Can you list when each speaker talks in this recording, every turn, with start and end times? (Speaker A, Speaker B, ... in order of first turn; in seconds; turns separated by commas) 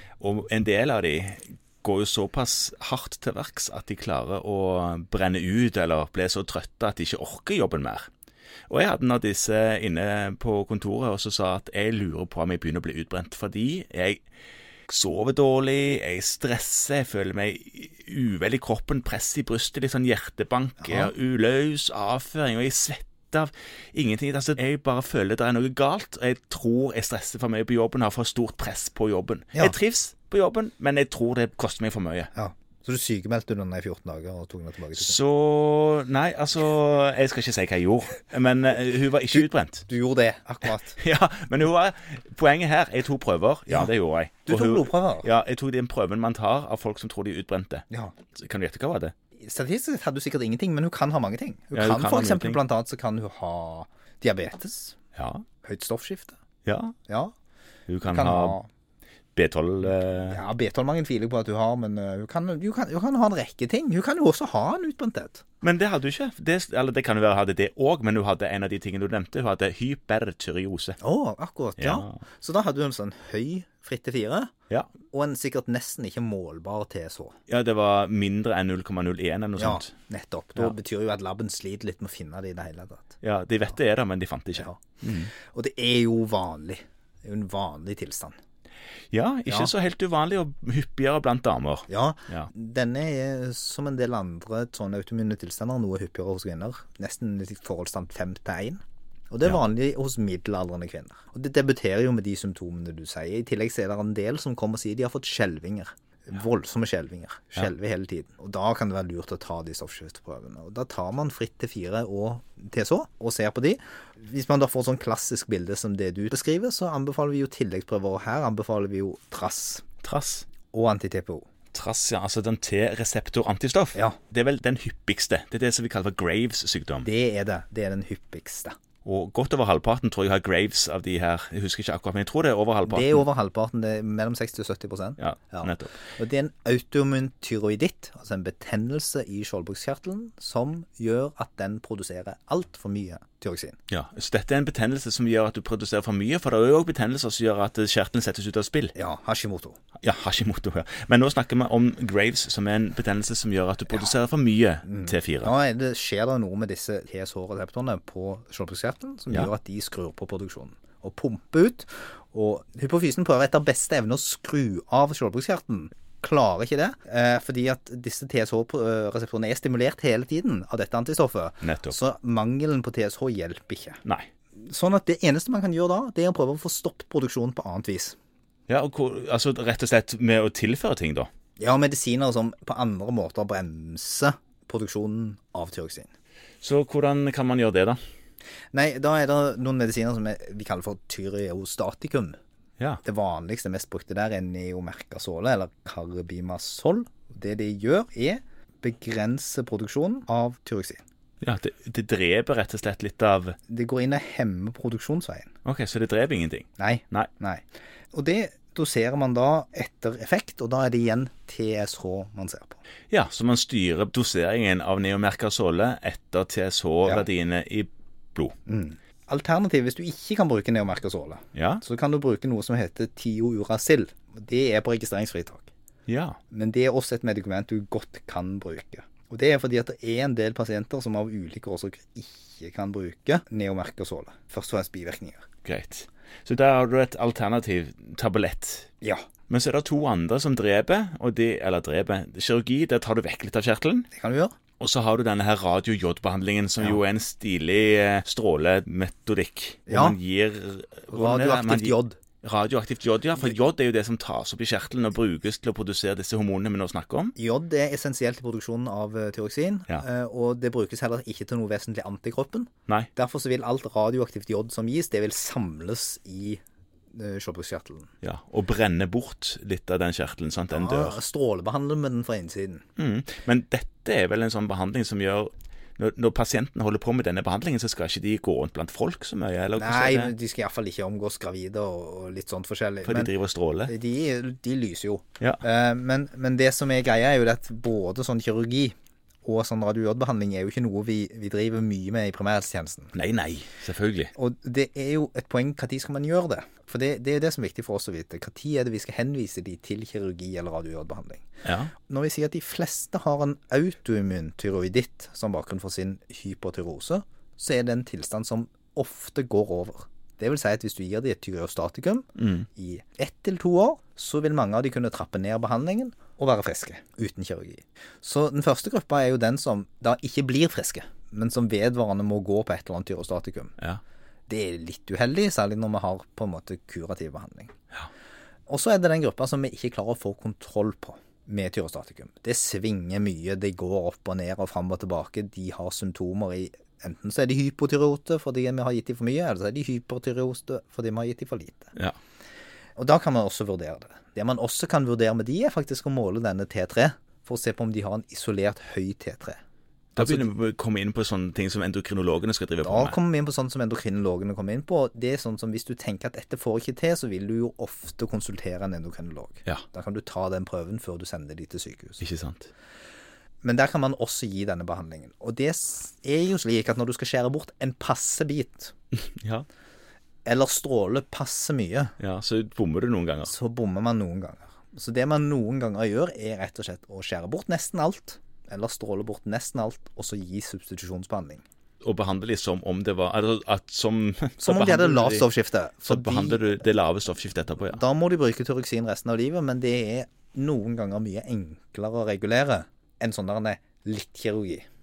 Speaker A: 0.2-8.1, Speaker A: 8.7-14.2, Speaker A: 14.9-32.3, Speaker B: 20.8-21.1, Speaker B: 32.3-35.2, Speaker A: 35.0-39.9, Speaker B: 39.3-41.0, Speaker A: 40.7-49.1, Speaker B: 44.5-45.3, Speaker B: 49.4-55.0, Speaker A: 51.7-52.6, Speaker A: 55.1-55.5, Speaker B: 55.6-56.4, Speaker A: 56.6-57.0, Speaker B: 57.1-57.3, Speaker A: 57.9-58.6, Speaker B: 58.0-58.7, Speaker A: 59.4-60.4, Speaker B: 60.3-65.4, Speaker A: 65.6-71.0, Speaker B: 71.0-74.5, Speaker A: 71.8-72.2, Speaker B: 75.1-77.4, Speaker A: 77.5-79.9, Speaker B: 79.6-83.2, Speaker A: 83.2-85.3, Speaker B: 85.3-88.3, Speaker A: 89.1-92.5, Speaker B: 89.5-89.7, Speaker B: 91.9-119.8, Speaker A: 120.0-120.5, Speaker B: 120.7-121.5, Speaker A: 121.7-127.1, Speaker B: 127.0-128.8, Speaker A: 129.1-133.2, Speaker B: 132.9-143.8, Speaker A: 135.2-136.0, Speaker A: 143.9-148.9, Speaker B: 148.9-149.8, Speaker A: 150.0-155.5, Speaker B: 154.9-174.0, Speaker A: 171.6-171.9, Speaker B: 174.6-178.2, Speaker A: 178.7-181.3, Speaker B: 181.6-186.1, Speaker A: 186.6-188.0, Speaker B: 188.7-192.4, Speaker B: 193.0-201.0, Speaker A: 201.4-203.6, Speaker B: 203.7-205.5, Speaker A: 205.7-207.3, Speaker B: 206.8-212.8, Speaker A: 213.1-218.6, Speaker B: 218.7-225.7, Speaker A: 221.6-221.8, Speaker A: 226.1-226.4, Speaker B: 226.5-235.4, Speaker A: 235.6-238.9, Speaker A: 239.5-244.1, Speaker B: 244.1-244.5, Speaker A: 244.8-257.4, Speaker B: 249.9-250.2, Speaker B: 251.1-252.2, Speaker B: 257.4-266.6, Speaker B: 267.1-268.1, Speaker A: 268.2-271.2, Speaker B: 270.7-272.8, Speaker A: 273.0-280.3, Speaker B: 279.8-283.3, Speaker A: 283.1-283.9, Speaker B: 283.9-293.1, Speaker A: 293.1-294.3, Speaker B: 294.4-301.5, Speaker A: 301.6-301.9, Speaker B: 302.1-323.7, Speaker A: 312.4-312.7, Speaker B: 324.5-327.7, Speaker B: 328.7-341.9, Speaker B: 343.0-349.6, Speaker A: 350.2-353.2, Speaker B: 350.2-350.5, Speaker B: 352.8-362.2, Speaker A: 362.2-362.7, Speaker B: 363.6-368.9, Speaker A: 369.2-369.7, Speaker B: 370.4-372.1, Speaker A: 372.2-373.5, Speaker B: 373.4-381.6, Speaker A: 382.0-385.5, Speaker B: 384.6-386.7, Speaker A: 386.0-388.0, Speaker B: 387.9-394.9